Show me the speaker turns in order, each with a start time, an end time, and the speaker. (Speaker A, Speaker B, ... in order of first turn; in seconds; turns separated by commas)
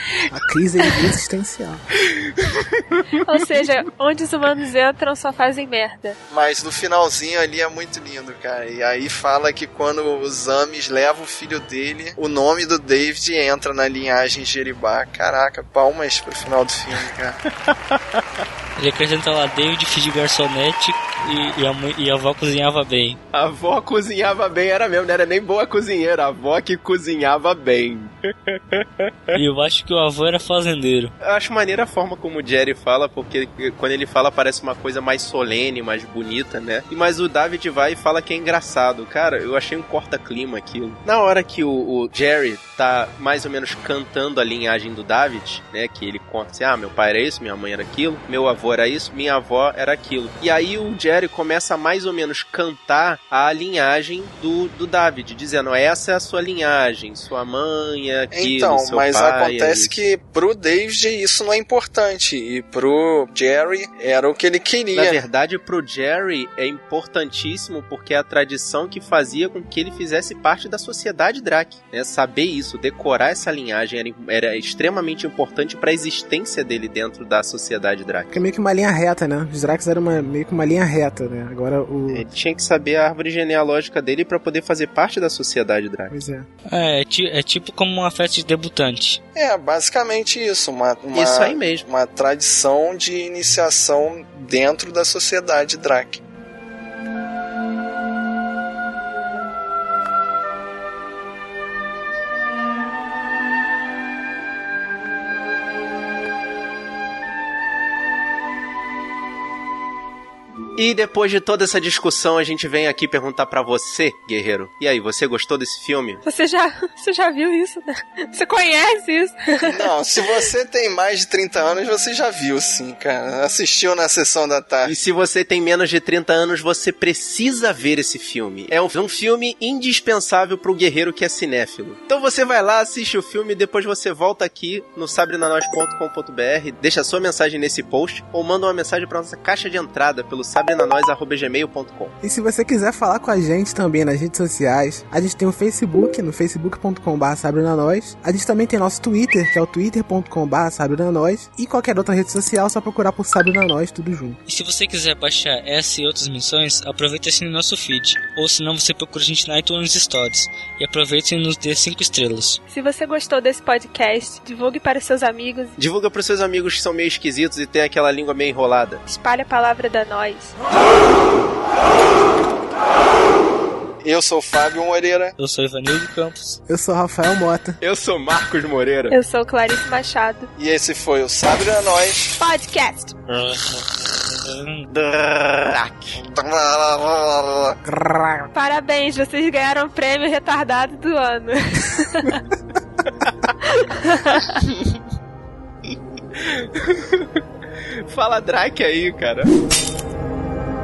Speaker A: 0.3-1.8, Speaker B: 2.1-3.2, Speaker C: 3.2-6.2, Speaker D: 6.3-17.4, Speaker B: 17.7-18.2, Speaker E: 18.8-23.2, Speaker B: 23.3-29.4, Speaker E: 29.3-31.1, Speaker B: 31.2-60.0, Speaker D: 58.3-65.2, Speaker B: 64.9-78.4, Speaker A: 78.3-82.2, Speaker B: 82.1-86.1, Speaker A: 86.1-86.5, Speaker E: 86.7-89.2, Speaker D: 89.3-96.2, Speaker B: 91.1-91.9, Speaker B: 110.8-116.2, Speaker C: 116.2-119.4, Speaker D: 119.7-124.9, Speaker B: 124.8-142.1, Speaker A: 142.2-154.4, Speaker E: 154.4-162.6, Speaker C: 162.7-165.8, Speaker B: 165.8-169.0, Speaker C: 169.1-170.5, Speaker D: 174.0-175.3, Speaker E: 175.4-176.6, Speaker A: 176.7-177.8, Speaker B: 177.8-179.1, Speaker C: 179.1-180.5, Speaker D: 180.6-182.3, Speaker C: 182.4-183.1, Speaker E: 183.3-184.9, Speaker B: 184.9-186.2, Speaker D: 186.1-187.8, Speaker A: 187.8-188.5, Speaker C: 188.5-192.4, Speaker C: 193.7-194.6, Speaker B: 196.3-197.3, Speaker B: 198.1-199.5